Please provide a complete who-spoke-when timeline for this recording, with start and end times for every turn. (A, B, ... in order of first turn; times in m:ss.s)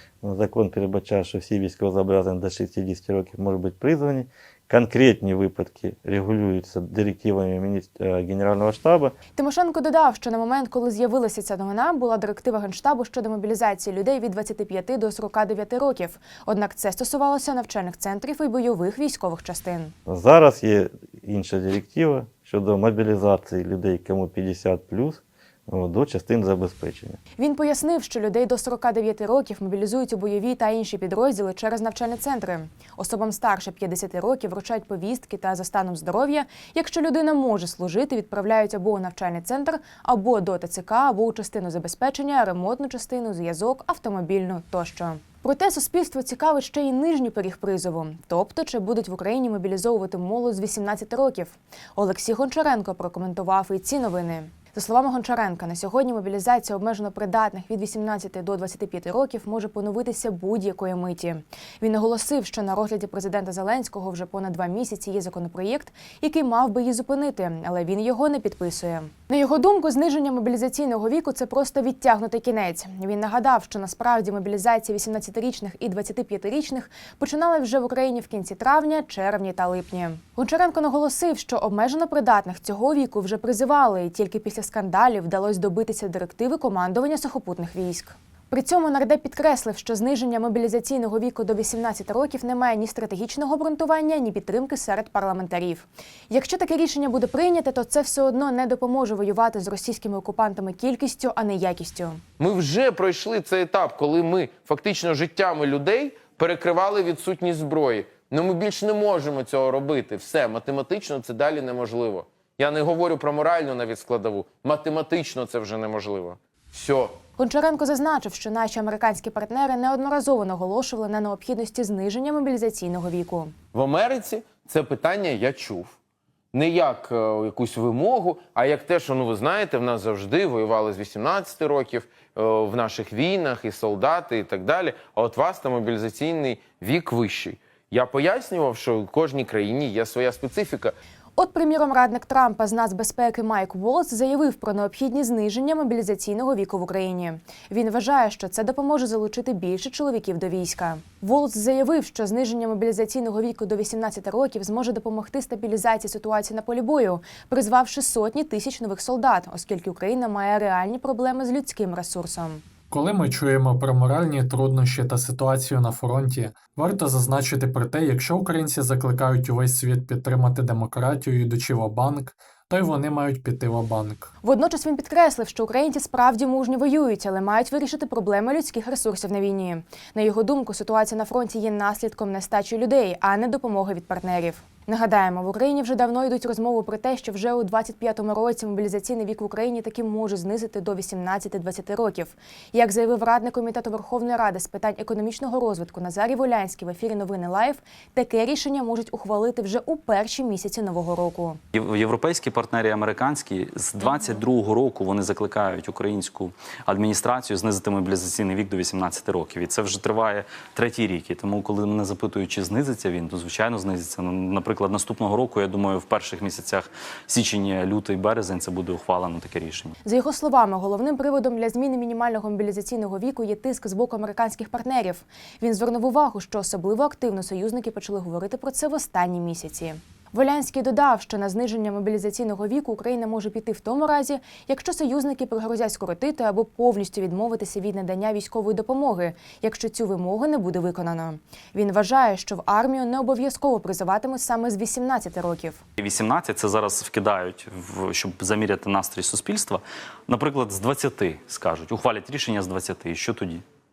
0:00.2-0:09.1 A
0:09.3-0:19.9 B
0:20.0-0:27.2 A
0:27.4-1:42.2 B
1:42.4-1:57.2 C
1:57.4-2:03.5 B
2:03.7-2:06.0 C
2:06.5-2:21.0 C
2:21.4-2:42.6 B
2:42.9-2:54.3 D
2:54.4-3:21.6 B
3:21.7-3:39.9 E
3:40.0-4:05.8 B
4:06.0-4:13.6 E